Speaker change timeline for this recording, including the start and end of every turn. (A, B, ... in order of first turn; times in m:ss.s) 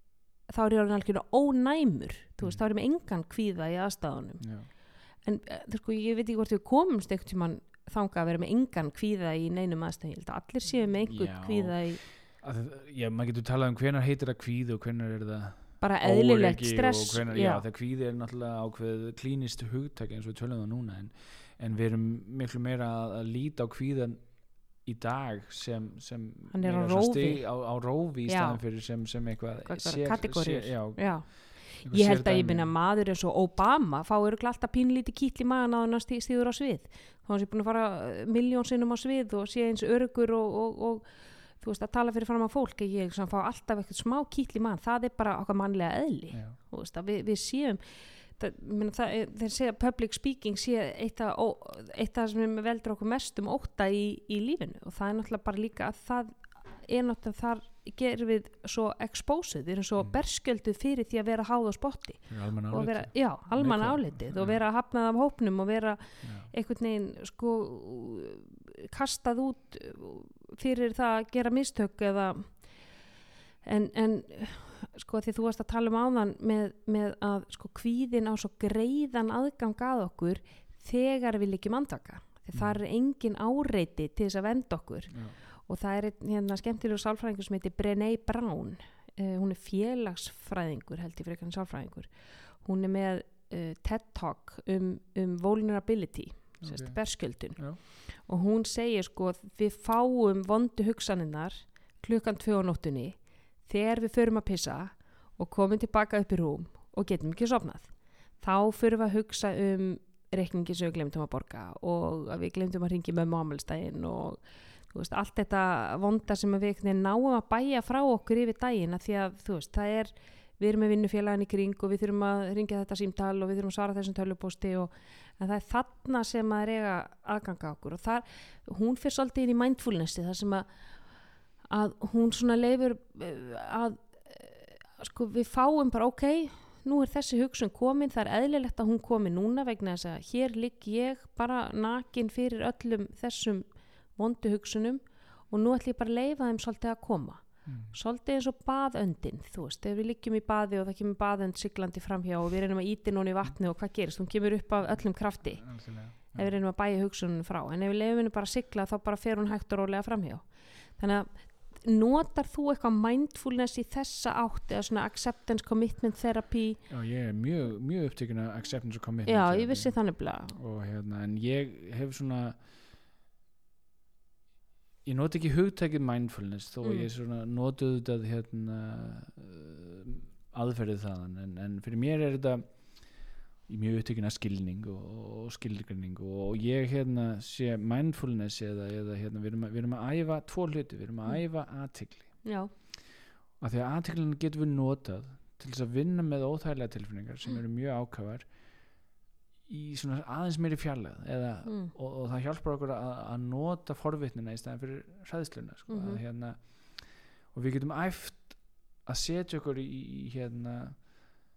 0:00.4-0:12.0 A
0:04.4-0:04.7 B
0:11.0-0:32.7 B
0:15.8-0:17.6 A
0:26.5-0:28.6 A
0:29.6-1:13.0 A
0:46.3-0:46.6 B
1:02.3-1:04.6 B
1:06.2-1:06.5 B
1:13.6-2:10.7 A
1:22.5-1:22.8 B
1:25.1-1:25.4 B
1:36.6-1:37.8 B
2:11.7-2:46.8 A
2:27.7-2:28.0 B
2:35.6-2:36.5 B
2:46.9-2:52.6 B
2:49.2-2:50.6 A
2:55.0-3:12.5 B
2:56.8-2:57.1 A
3:12.4-3:12.7 A
3:13.6-3:18.9 B
3:19.7-3:31.0 B
3:21.7-3:21.9 A
3:25.9-3:26.2 A